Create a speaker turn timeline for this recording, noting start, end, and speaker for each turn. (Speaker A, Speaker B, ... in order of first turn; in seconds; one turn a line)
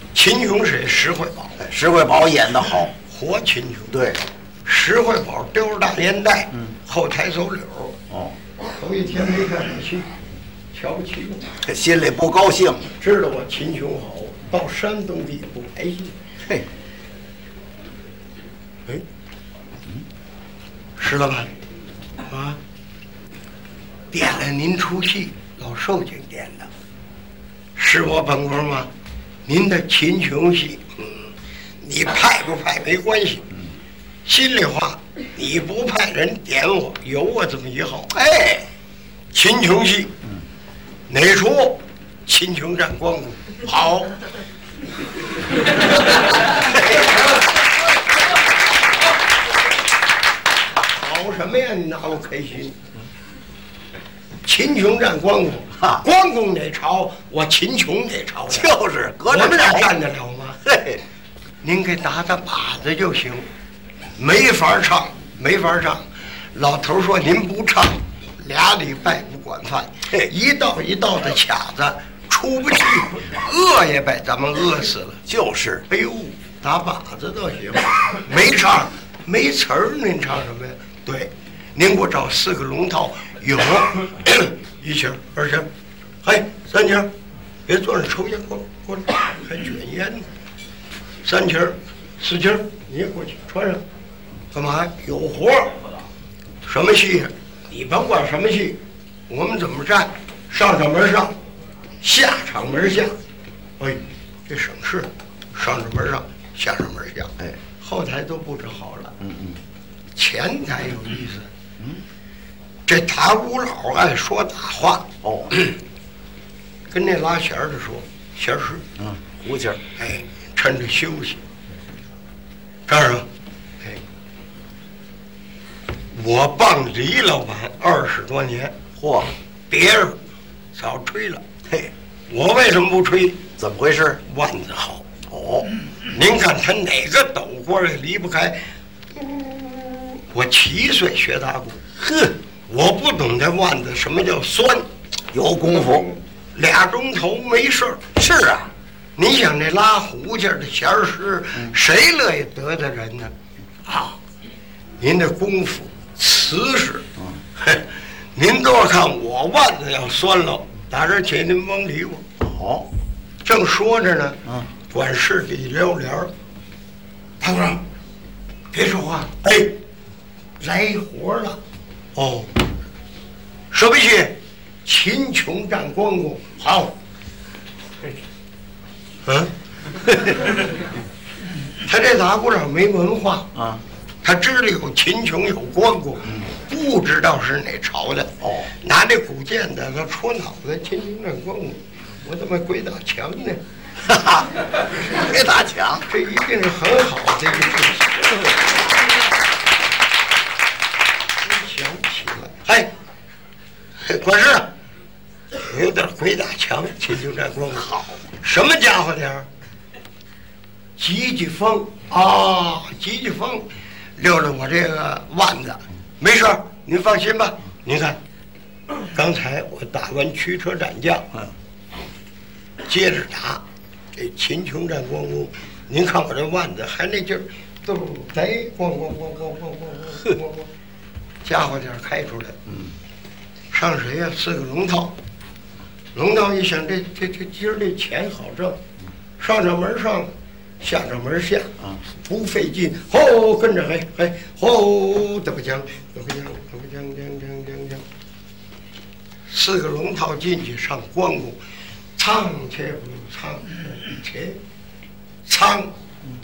Speaker A: 0.1-1.6
Speaker B: 1.6-2.9
Speaker A: 3.1-3.9
Speaker B: 3.9-4.2
Speaker A: 4.7-8.0
Speaker B: 8.1-8.3
Speaker A: 8.6-10.1
Speaker A: 10.7-11.5
Speaker B: 11.6-12.9
Speaker A: 13.0-16.1
Speaker A: 21.0-21.5
Speaker A: 22.3-22.6
Speaker A: 24.1-26.7
Speaker A: 27.8-28.9
Speaker A: 29.5-31.3
Speaker A: 31.8-33.5
Speaker A: 34.3-38.1
Speaker B: 38.1-38.7
Speaker A: 39.3-40.2
Speaker A: 41.1-44.2
Speaker A: 50.9-52.8
Speaker A: 54.4-58.7
Speaker B: 58.5-59.9
Speaker A: 59.3-60.6
Speaker B: 60.6-61.0
Speaker A: 61.6-63.5
Speaker A: 64.2-66.0
Speaker A: 66.5-75.2
Speaker B: 75.3-75.8
Speaker A: 75.9-85.7
Speaker A: 86.2-87.1
Speaker A: 87.7-90.3
Speaker A: 91.2-93.8
Speaker A: 94.5-95.8
Speaker A: 96.6-101.3
Speaker A: 102.0-103.1
Speaker A: 103.8-109.2
Speaker B: 109.2-109.6
Speaker A: 110.2-111.5
Speaker A: 112.9-115.7
Speaker B: 115.2-115.6
Speaker A: 116.9-118.8
Speaker B: 119.0-119.8
Speaker A: 120.0-121.4
Speaker A: 122.9-123.3
Speaker A: 126.1-128.7
Speaker B: 129.0-129.3
Speaker A: 129.7-130.2
Speaker A: 130.8-131.4
Speaker A: 132.3-133.4
Speaker B: 133.6-134.2
Speaker A: 134.3-135.0
Speaker B: 135.3-135.7
Speaker A: 136.1-138.6
Speaker A: 139.2-141.8
Speaker B: 142.0-142.4
Speaker A: 142.7-144.9
Speaker B: 145.3-146.1
Speaker A: 145.9-148.0
Speaker B: 148.2-148.7
Speaker A: 149.2-153.3
Speaker A: 153.9-154.2
Speaker A: 155.0-157.1
Speaker A: 157.6-162.2
Speaker B: 162.4-162.9
Speaker A: 163.4-166.3
Speaker A: 167.4-167.8
Speaker A: 168.7-169.8
Speaker A: 170.6-171.6
Speaker A: 172.2-172.5
Speaker A: 173.7-176.9
Speaker A: 179.3-179.5
Speaker A: 181.8-183.5
Speaker B: 183.6-183.8
Speaker A: 184.2-193.6
Speaker B: 188.4-188.7
Speaker B: 194.1-196.1
Speaker A: 196.1-198.3
Speaker A: 201.4-202.9
Speaker A: 204.0-204.7
Speaker A: 205.5-209.5
Speaker A: 211.0-218.2
Speaker A: 219.1-221.3
Speaker A: 222.8-223.6
Speaker A: 224.1-230.7
Speaker A: 231.4-232.6
Speaker A: 233.7-235.2
Speaker A: 236.2-238.8
Speaker A: 239.4-241.7
Speaker A: 242.2-248.1
Speaker A: 249.5-251.6
Speaker A: 252.2-254.6
Speaker A: 255.5-255.9